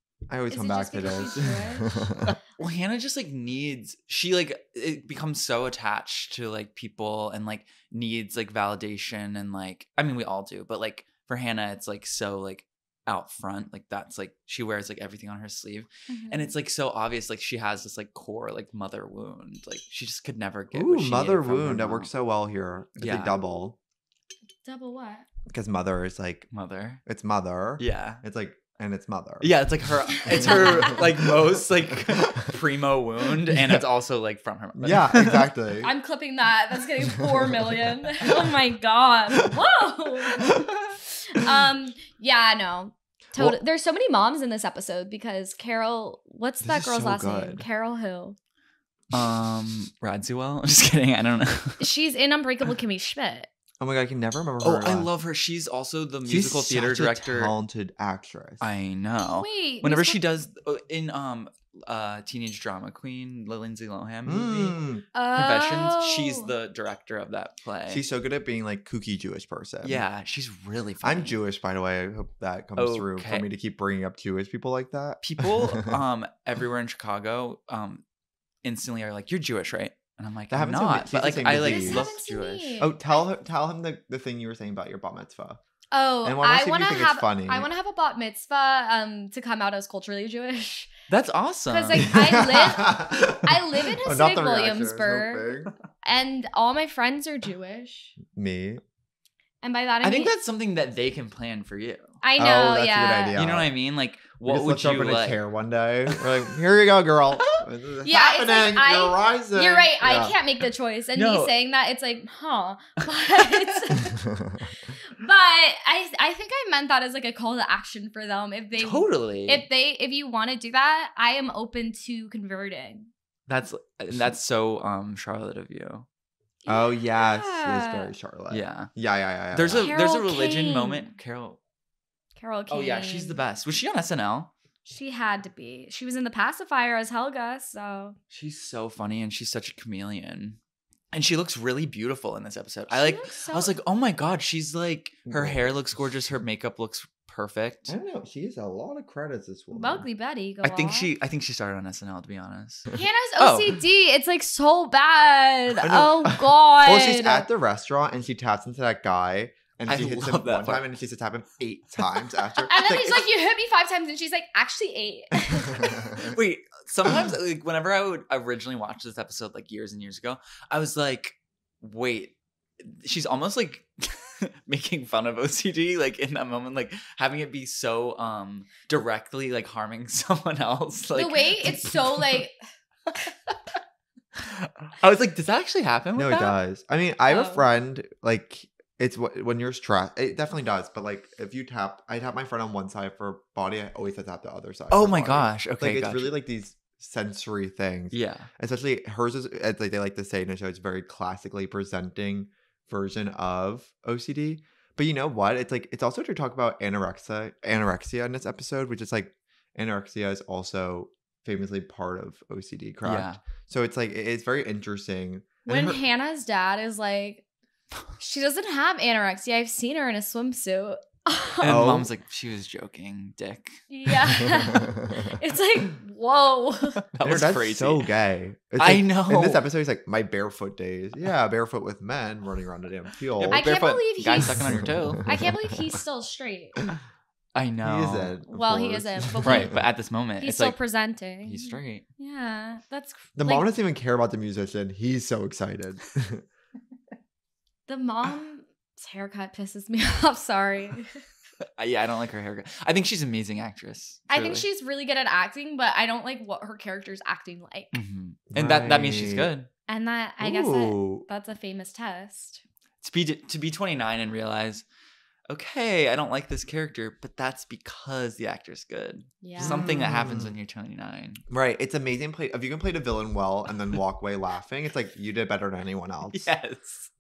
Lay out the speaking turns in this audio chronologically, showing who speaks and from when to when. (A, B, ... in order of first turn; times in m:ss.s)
0:00.3-0:02.3 A
0:00.5-0:02.1 B
0:02.3-0:22.1 C
0:16.1-0:16.5 B
0:20.7-0:23.8 A
0:23.0-0:23.5 C
0:24.6-0:25.3 B
0:25.5-0:26.5 A
0:26.5-0:27.0 C
0:27.0-0:29.5 A
0:27.8-0:28.2 C
0:29.4-0:35.5 C
0:30.2-0:32.5 A
0:30.5-0:30.9 B
0:33.5-0:33.8 A
0:34.8-0:35.9 A
0:35.8-0:48.4 B
0:37.4-0:37.9 A
0:40.4-0:40.7 A
0:46.6-0:47.7 A
0:49.1-0:51.9 C
0:51.8-0:53.5 B
0:53.8-0:55.1 A
0:54.6-0:57.5 C
0:56.3-0:58.6 A
0:58.6-1:04.8 C
0:59.3-1:00.2 B
1:04.3-1:05.0 A
1:05.1-1:06.5 B
1:05.3-1:08.0 C
1:07.9-1:10.0 A
1:09.8-1:11.4 C
1:11.0-1:16.0 A
1:12.8-1:13.5 C
1:15.2-1:18.0 C
1:18.6-1:22.8 C
1:20.5-1:22.1 A
1:21.5-1:23.2 B
1:22.8-1:25.6 A
1:25.9-1:30.9 B
1:26.2-1:27.7 A
1:31.1-1:32.1 C
1:31.7-1:35.5 B
1:32.1-1:35.7 A
1:36.0-1:38.2 B
1:38.3-1:38.8 A
1:39.6-1:40.4 B
1:40.0-1:42.2 C
1:42.2-1:43.4 B
1:42.4-1:43.7 A
1:43.4-1:45.4 C
1:44.4-1:50.4 A
1:48.0-1:54.3 B
1:51.2-1:51.5 C
1:53.4-1:53.8 C
1:54.4-1:54.6 A
1:54.9-2:03.1 B
1:58.8-1:59.7 C
2:03.5-2:06.1 C
2:06.6-2:08.1 B
2:06.7-2:10.0 A
2:08.5-2:08.9 C
2:09.5-2:11.6 C
2:09.7-2:11.1 B
2:12.4-2:13.4 B
2:12.7-2:14.5 C
2:14.8-2:18.2 B
2:18.3-2:20.6 C
2:21.1-2:28.0 C
2:22.9-2:23.7 B
2:25.3-2:25.6 A
2:27.9-2:30.1 A
2:29.7-2:31.1 B
2:30.6-2:33.8 C
2:32.9-2:37.5 B
2:35.8-2:43.2 A
2:39.9-2:40.8 C
2:42.7-2:46.1 B
2:45.7-3:02.4 C
2:45.8-2:46.3 A
3:01.2-3:02.6 B
3:04.4-3:06.6 C
3:06.2-3:36.0 A
3:07.3-3:07.6 B
3:14.9-3:16.3 C
3:18.1-3:18.5 C
3:33.0-3:33.4 C
3:35.7-3:37.4 B
3:38.2-3:41.7 B
3:41.6-3:43.8 C
3:41.6-3:42.1 A
3:43.9-3:47.0 B
3:44.7-3:45.2 A
3:47.0-3:48.1 C
3:47.2-3:53.7 A
3:48.8-3:49.6 C
3:53.4-3:55.4 C
3:53.5-3:56.8 B
3:54.4-3:56.0 A
3:57.6-3:58.3 C
3:57.8-3:59.8 A
3:58.5-3:59.8 B
3:59.4-4:00.8 C
4:00.4-4:03.7 B
4:01.4-4:02.0 C
4:03.4-4:06.4 A
4:07.9-4:11.2 B
4:11.8-4:14.6 C
4:14.3-4:18.0 B
4:17.9-4:19.7 C
4:18.5-4:19.5 A
4:19.9-4:22.6 B
4:20.4-4:21.3 A
4:23.0-4:24.8 C
4:25.5-4:31.4 C
4:29.4-4:30.0 B
4:29.6-4:30.6 A
4:31.5-4:36.5 A
4:36.3-4:37.1 C